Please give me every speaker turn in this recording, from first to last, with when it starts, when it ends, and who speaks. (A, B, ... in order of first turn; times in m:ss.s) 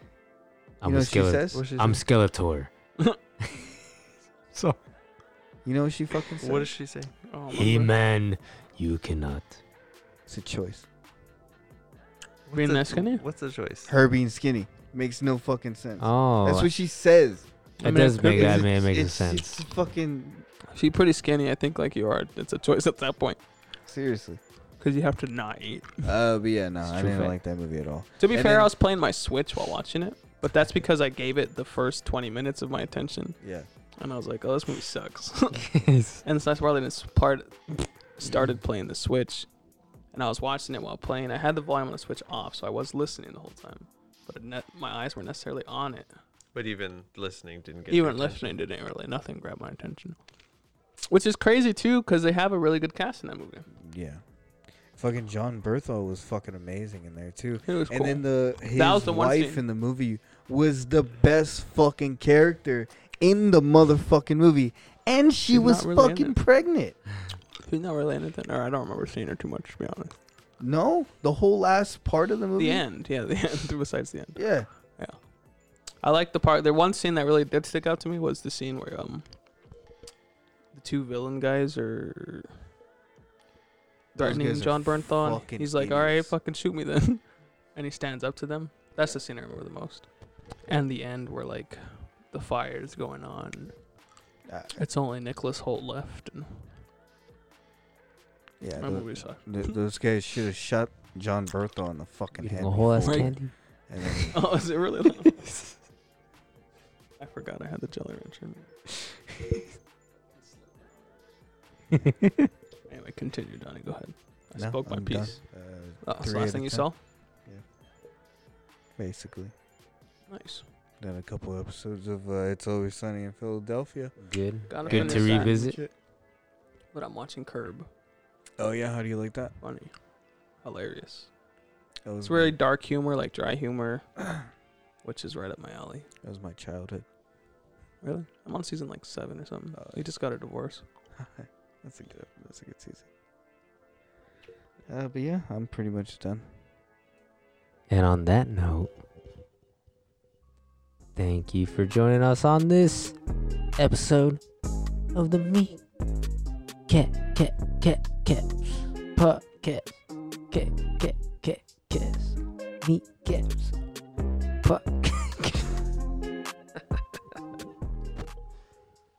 0:00.8-0:02.7 A
0:00.8-0:01.6 B
0:01.5-0:02.0 C
0:05.6-0:06.7 B
0:06.4-0:07.1 C
0:07.2-0:07.9 D
0:07.5-0:09.6 A
0:10.3-0:10.9 B
0:12.5-0:14.0 C
0:12.5-0:13.2 D
0:13.9-0:17.5 B
0:16.0-0:16.7 A
0:17.8-0:18.7 D
0:17.8-0:19.6 A
0:18.2-0:20.5 B
0:20.7-0:23.4 D
0:23.8-0:24.4 B
0:24.8-0:26.0 D
0:26.0-0:28.7 B
0:26.9-0:27.4 A
0:28.2-0:33.4 D
0:33.4-0:33.7 B
0:34.0-0:39.5 D
0:35.7-0:36.2 A
0:40.1-0:46.2 D
0:46.6-0:48.6 C
0:47.9-0:50.2 D
0:51.1-0:53.7 D
0:53.8-0:54.2 B
0:55.0-1:07.0 B
0:57.7-0:59.6 D
1:05.5-1:06.4 D
1:07.6-1:10.1 D
1:10.6-1:12.8 B
1:12.6-1:15.2 D
1:14.4-1:14.7 B
1:16.0-1:19.2 D
1:20.7-1:22.5 D
1:24.1-1:30.1 D
1:24.2-1:26.4 B
1:30.7-1:33.8 D
1:34.5-1:34.8 B
1:34.8-1:36.8 D
1:38.6-1:44.5 B
1:38.8-1:39.8 D
1:42.4-1:43.5 A
1:43.0-1:43.4 D
1:44.2-1:45.7 D
1:47.2-1:49.0 D
1:50.3-1:51.3 D
1:52.1-1:52.5 A
1:52.9-1:55.4 D
1:54.6-1:56.9 B
1:56.0-1:57.0 D
1:59.0-1:59.5 B
2:00.3-2:00.6 D
2:01.0-2:04.2 B
2:04.2-2:05.8 A
2:04.7-2:05.6 D
2:04.7-2:05.9 B
2:06.9-2:07.9 D
2:08.6-2:09.6 B
2:09.6-2:09.9 D
2:10.6-2:11.3 D
2:12.0-2:12.6 B
2:12.2-2:14.1 D
2:15.0-2:16.1 D
2:16.2-2:17.1 B
2:18.0-2:20.8 D
2:19.8-2:20.0 B
2:21.2-2:23.1 B
2:24.9-2:26.5 B
2:27.9-2:28.9 A
2:31.2-2:33.2 A
2:33.8-2:34.4 A
2:35.1-2:35.8 A
2:36.9-2:40.0 A
2:40.5-2:43.7 A
2:44.6-2:45.7 A